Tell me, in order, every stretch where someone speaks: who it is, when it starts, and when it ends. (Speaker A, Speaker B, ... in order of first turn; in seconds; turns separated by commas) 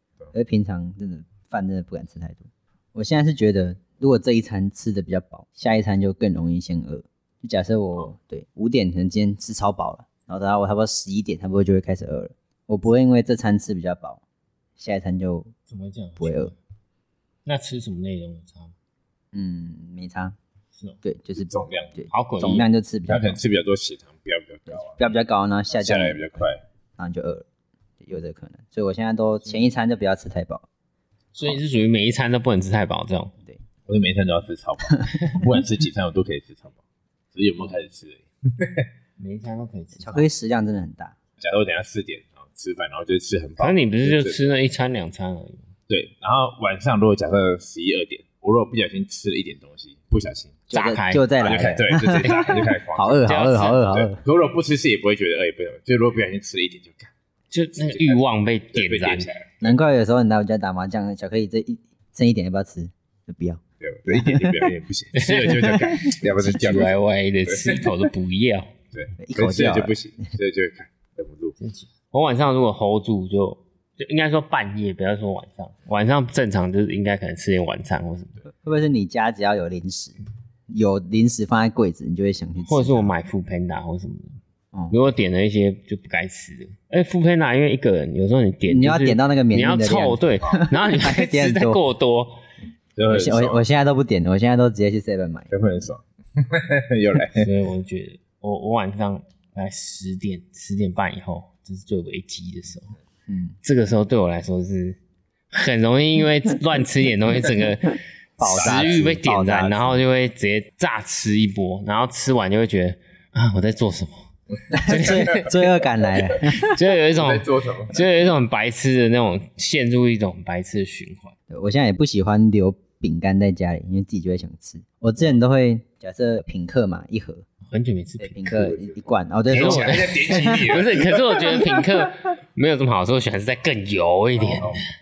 Speaker A: 0.3-14.2, Speaker A: 14.8-15.5, Speaker B: 15.7-16.6, Speaker A: 16.2-16.5, Speaker B: 17.4-18.7, Speaker A: 19.3-20.4, Speaker A: 21.0-23.4, Speaker C: 21.3-21.9, Speaker B: 22.1-22.6, Speaker C: 23.1-25.1, Speaker A: 24.7-27.4, Speaker C: 25.7-26.6, Speaker A: 28.0-30.6, Speaker B: 31.3-33.3, Speaker C: 33.9-36.8, Speaker C: 37.3-38.9, Speaker B: 39.2-40.3, Speaker A: 40.0-41.1, Speaker C: 41.4-44.4, Speaker B: 43.6-45.7, Speaker C: 45.9-50.6, Speaker A: 50.7-54.2, Speaker B: 50.7-51.3, Speaker C: 51.4-57.1, Speaker B: 53.3-54.0, Speaker B: 57.5-59.3, Speaker C: 57.8-58.2, Speaker C: 58.7-59.8, Speaker A: 59.6-64.7, Speaker C: 63.8-67.9, Speaker B: 65.1-68.8, Speaker C: 68.9-71.6, Speaker A: 69.2-69.9, Speaker B: 71.6-78.4, Speaker A: 78.6-80.2, Speaker A: 80.7-83.1, Speaker B: 82.6-84.4, Speaker B: 84.9-92.4, Speaker A: 88.7-91.8, Speaker C: 93.0-93.6, Speaker A: 93.1-95.5, Speaker C: 95.5-97.5, Speaker B: 97.3-102.9, Speaker A: 103.3-103.6, Speaker B: 103.6-105.0, Speaker B: 105.5-114.3, Speaker A: 108.4-110.0, Speaker C: 108.5-109.1, Speaker A: 114.7-116.7, Speaker B: 114.8-115.5, Speaker C: 114.9-115.5, Speaker C: 116.5-118.0, Speaker B: 116.6-121.3, Speaker A: 121.5-127.5, Speaker B: 127.7-128.5, Speaker A: 128.2-130.6, Speaker C: 128.5-129.0, Speaker C: 129.5-131.6, Speaker B: 129.5-134.8, Speaker C: 134.4-134.8